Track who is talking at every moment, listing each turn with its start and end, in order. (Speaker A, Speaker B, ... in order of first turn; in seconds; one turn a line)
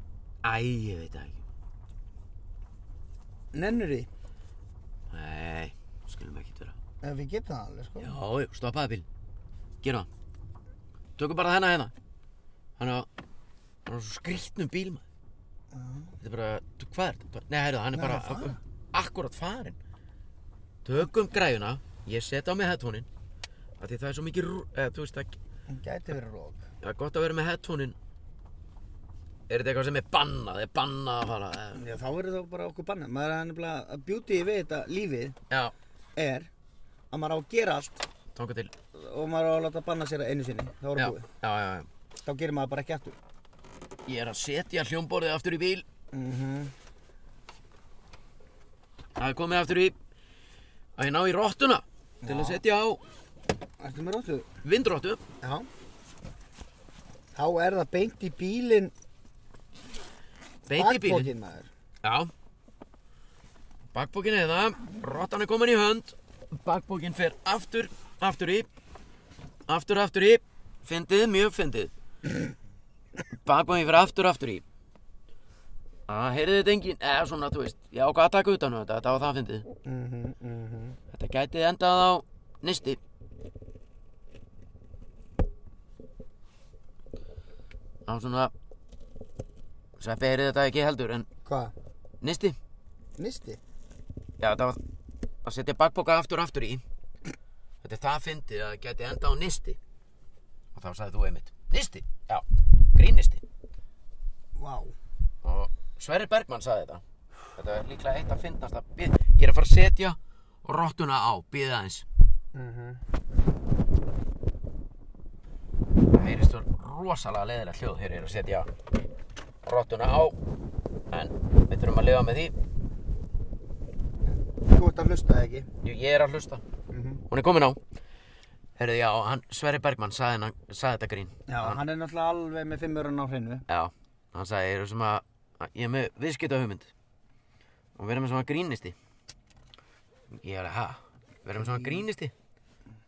Speaker A: 0.4-1.4
Speaker B: 3.5-4.1
Speaker A: 5.1-6.8
Speaker B: 7.0-8.2
Speaker A: 8.0-9.1
Speaker A: 9.8-10.1
Speaker A: 11.2-11.9
Speaker A: 12.8-13.1
Speaker A: 13.9-15.0
Speaker B: 15.7-16.1
Speaker A: 16.2-19.8
Speaker B: 17.9-18.6
Speaker A: 20.8-23.1
Speaker A: 23.8-25.4
Speaker B: 25.7-26.7
Speaker A: 26.8-28.0
Speaker A: 29.5-31.9
Speaker B: 31.7-35.4
Speaker B: 36.2-36.5
Speaker B: 37.1-38.1
Speaker A: 38.4-38.7
Speaker B: 38.9-41.2
Speaker A: 41.0-41.9
Speaker B: 42.2-43.2
Speaker A: 44.1-45.9
Speaker B: 46.1-46.7
Speaker A: 49.2-50.0
Speaker A: 51.0-53.0
Speaker B: 52.2-52.6
Speaker B: 53.8-54.5
Speaker A: 54.6-55.2
Speaker B: 55.4-55.7
Speaker B: 57.4-58.9
Speaker A: 60.7-61.3
Speaker B: 60.8-61.7
Speaker A: 62.0-62.3
Speaker A: 63.9-68.7
Speaker A: 69.7-71.9
Speaker A: 73.5-74.6
Speaker A: 76.1-79.7
Speaker B: 79.8-81.0
Speaker A: 81.1-83.0
Speaker A: 88.1-88.5
Speaker A: 90.0-91.3
Speaker B: 91.5-91.7
Speaker A: 92.2-92.6
Speaker B: 93.2-93.6
Speaker A: 94.4-94.8
Speaker A: 95.4-96.8
Speaker A: 97.8-99.8
Speaker A: 100.8-103.4
Speaker B: 104.6-105.0
Speaker A: 105.4-107.0
Speaker A: 107.5-112.0
Speaker B: 112.5-113.0
Speaker A: 116.1-118.7
Speaker A: 119.6-120.4
Speaker A: 121.1-122.5
Speaker B: 124.6-125.7
Speaker A: 125.8-126.6
Speaker B: 126.9-127.2
Speaker A: 127.3-127.8
Speaker A: 128.8-131.8
Speaker B: 131.5-133.6
Speaker A: 133.7-136.9
Speaker A: 138.0-139.0
Speaker A: 140.3-142.3
Speaker B: 141.6-142.1